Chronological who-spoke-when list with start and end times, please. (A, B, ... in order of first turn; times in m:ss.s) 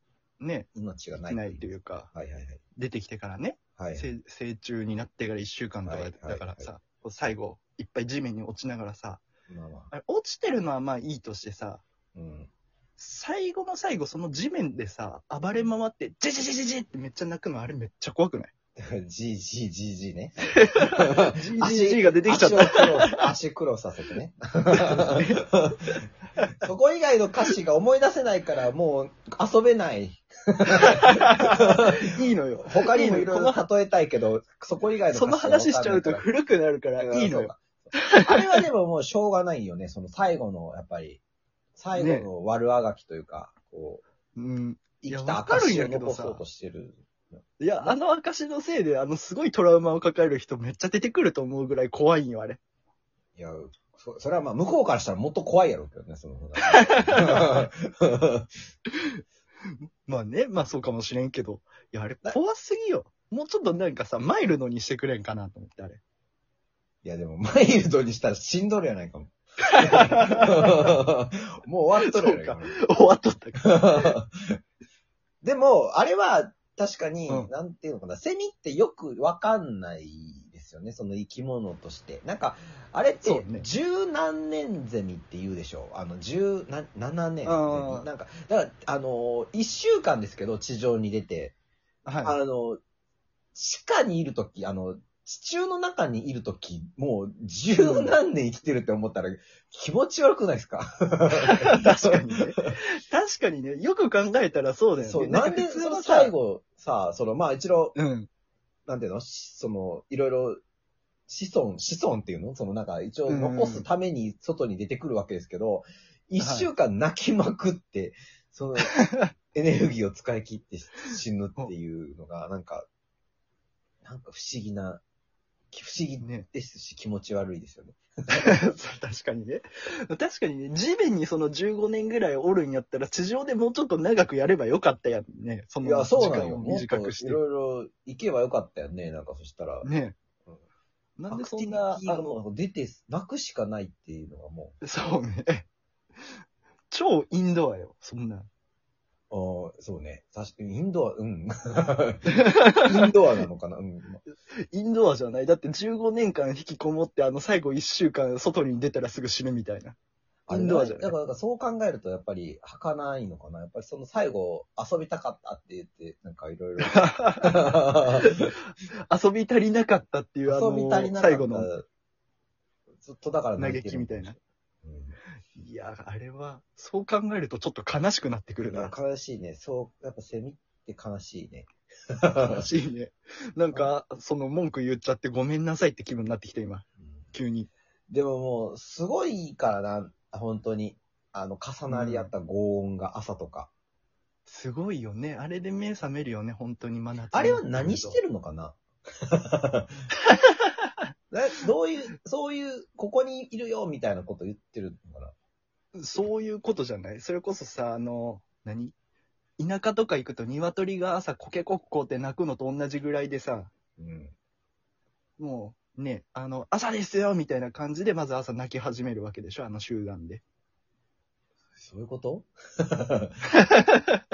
0:00.4-0:00.7 A
0:00.7-0:02.6 B
0:01.2-0:02.1 A
0:02.8-0:09.2 A
0:03.8-0:04.1 B
0:05.8-0:06.7 B
0:09.5-0:09.9 B
0:09.9-0:11.8 A
0:12.1-0:12.5 B
0:13.0-0:18.5 A
0:18.8-0:25.7 B
0:20.6-0:23.3 A
0:24.7-0:26.5 A
0:26.6-0:32.0 B
0:30.8-0:33.6 A
0:32.6-0:36.3 B
0:35.1-0:38.6 A
0:37.0-0:41.2 B
0:41.8-0:44.0 B
0:41.9-0:42.3 A
0:44.4-0:46.4 A
0:45.0-0:47.1 B
0:47.6-0:52.6 A
0:53.4-0:58.5 B
0:56.7-0:57.7 A
0:58.9-1:06.0 A
1:07.0-1:12.8 B
1:09.7-1:10.9 A
1:12.0-1:14.2 A
1:13.6-1:14.4 B
1:15.4-1:31.6 B
1:23.2-1:23.7 A
1:27.4-1:28.1 A
1:32.1-1:32.4 A
1:32.2-1:32.8 B
1:33.6-1:42.8 B
1:37.7-1:38.2 A
1:41.4-1:46.3 A
1:45.0-1:48.0 B
1:48.0-1:48.3 A
1:48.9-1:50.6 B
1:51.3-2:02.9 B
1:53.3-1:53.9 A
1:56.4-1:56.7 A
1:58.9-1:59.3 A
2:04.0-2:05.0 B
2:05.7-2:08.5 B
2:08.3-2:17.4 A
2:15.8-2:19.9 B
2:19.8-2:20.2 A
2:21.2-2:22.4 A
2:21.3-2:24.8 B
2:24.8-2:25.7 A
2:26.9-2:28.5 A
2:29.3-2:34.2 B
2:32.4-2:32.8 A
2:34.7-2:40.0 A
2:40.5-2:41.1 A
2:40.5-2:48.6 B
2:46.8-2:51.7 A
2:50.5-2:51.9 B
2:53.0-2:55.2 B
2:53.6-2:54.4 A
2:55.6-2:59.0 A
2:58.7-3:02.7 B
3:02.4-3:07.7 A
3:08.1-3:13.7 B
3:11.9-3:12.3 A
3:14.5-3:18.2 A
3:17.3-3:19.9 B
3:21.3-3:25.3 B
3:26.0-3:28.9 A
3:29.6-3:33.7 A
3:34.0-3:34.3 B
3:35.4-3:40.4 A
3:41.8-3:43.4 B
3:43.6-3:44.2 A